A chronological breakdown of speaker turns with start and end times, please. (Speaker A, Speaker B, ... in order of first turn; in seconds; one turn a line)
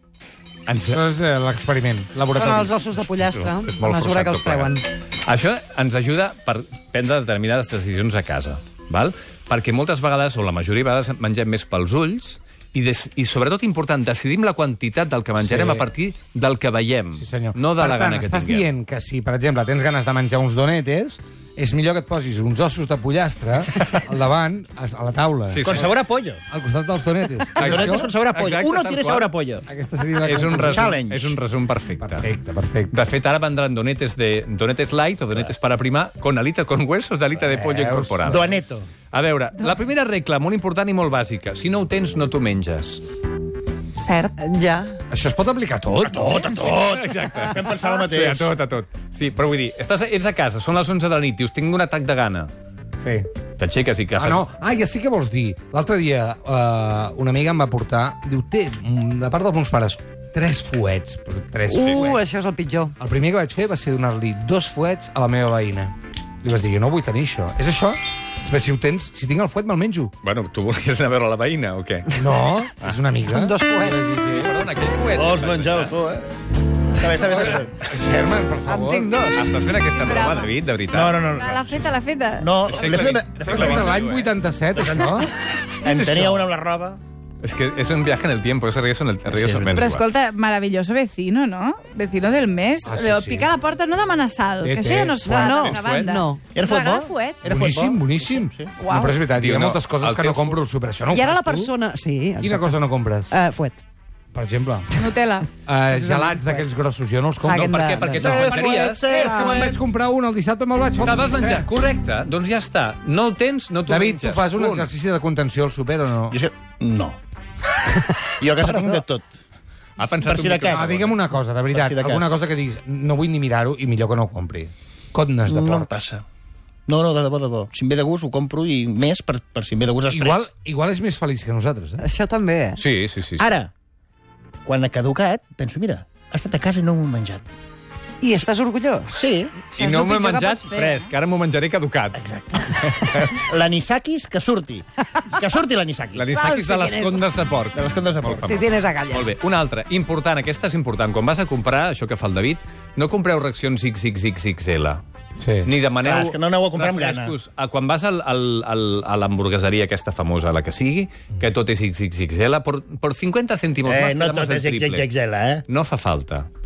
Speaker A: 0.7-1.0
Speaker B: 0.9-2.8
Speaker C: 2.3-4.8
Speaker A: 3.3-18.7
Speaker B: 15.4-15.8
Speaker B: 17.2-25.9
Speaker A: 25.5-25.9
Speaker D: 25.6-26.4
Speaker B: 26.5-28.1
Speaker A: 27.6-29.3
Speaker D: 27.6-29.7
Speaker B: 29.7-30.9
Speaker A: 30.2-32.3
Speaker D: 30.5-31.4
Speaker B: 32.0-33.0
Speaker A: 32.9-38.5
Speaker B: 37.4-38.6
Speaker D: 38.2-38.9
Speaker A: 39.1-43.0
Speaker E: 44.0-44.4
Speaker C: 44.4-45.0
Speaker B: 45.1-46.5
Speaker D: 46.0-48.5
Speaker A: 46.6-52.5
Speaker B: 53.0-53.3
Speaker A: 53.6-54.5
Speaker B: 54.2-62.2
Speaker C: 61.7-63.0
Speaker A: 61.8-62.2
Speaker B: 63.0-70.1
Speaker A: 70.2-72.1
Speaker B: 72.1-74.5
Speaker C: 73.3-74.3
Speaker A: 74.4-75.9
Speaker D: 75.2-76.3
Speaker D: 76.9-77.8
Speaker B: 77.2-79.1
Speaker C: 78.7-79.5
Speaker A: 79.3-81.3
Speaker E: 79.9-80.5
Speaker D: 80.9-81.8
Speaker E: 81.3-82.5
Speaker D: 82.4-84.0
Speaker A: 82.7-84.3
Speaker B: 83.4-86.5
Speaker D: 84.7-87.0
Speaker A: 87.4-90.0
Speaker D: 89.3-89.7
Speaker E: 89.7-97.4
Speaker B: 92.9-93.5
Speaker B: 94.6-95.3
Speaker C: 95.2-96.4
Speaker A: 95.5-96.2
Speaker D: 96.5-98.7
Speaker B: 97.5-101.7
Speaker E: 98.8-99.2
Speaker A: 99.3-100.6
Speaker C: 101.1-102.7
Speaker B: 102.4-103.3
Speaker C: 103.3-103.8
Speaker B: 104.3-105.1
Speaker E: 105.0-105.5
Speaker B: 105.7-107.8
Speaker C: 105.9-106.6
Speaker C: 107.4-108.6
Speaker A: 107.5-109.1
Speaker D: 108.1-109.8
Speaker B: 109.0-111.7
Speaker C: 109.2-109.5
Speaker A: 111.0-114.9
Speaker B: 113.9-116.4
Speaker D: 116.3-117.2
Speaker D: 118.2-119.3
Speaker A: 120.0-121.1
Speaker D: 120.2-120.9
Speaker B: 120.7-125.9
Speaker D: 121.7-122.4
Speaker D: 125.5-126.2
Speaker D: 126.9-130.5
Speaker B: 130.1-132.1
Speaker C: 132.0-132.8
Speaker A: 132.8-133.5
Speaker D: 133.4-133.7
Speaker D: 134.7-137.5
Speaker C: 138.2-139.1
Speaker D: 139.1-139.6
Speaker C: 139.7-140.6
Speaker A: 139.8-143.5
Speaker E: 140.6-141.1
Speaker D: 142.2-146.3
Speaker A: 146.2-155.0
Speaker C: 146.3-147.2
Speaker D: 147.7-148.5
Speaker C: 148.5-149.3
Speaker B: 155.4-155.7
Speaker A: 155.6-165.1
Speaker D: 156.0-157.3
Speaker D: 163.8-165.7
Speaker A: 165.7-166.5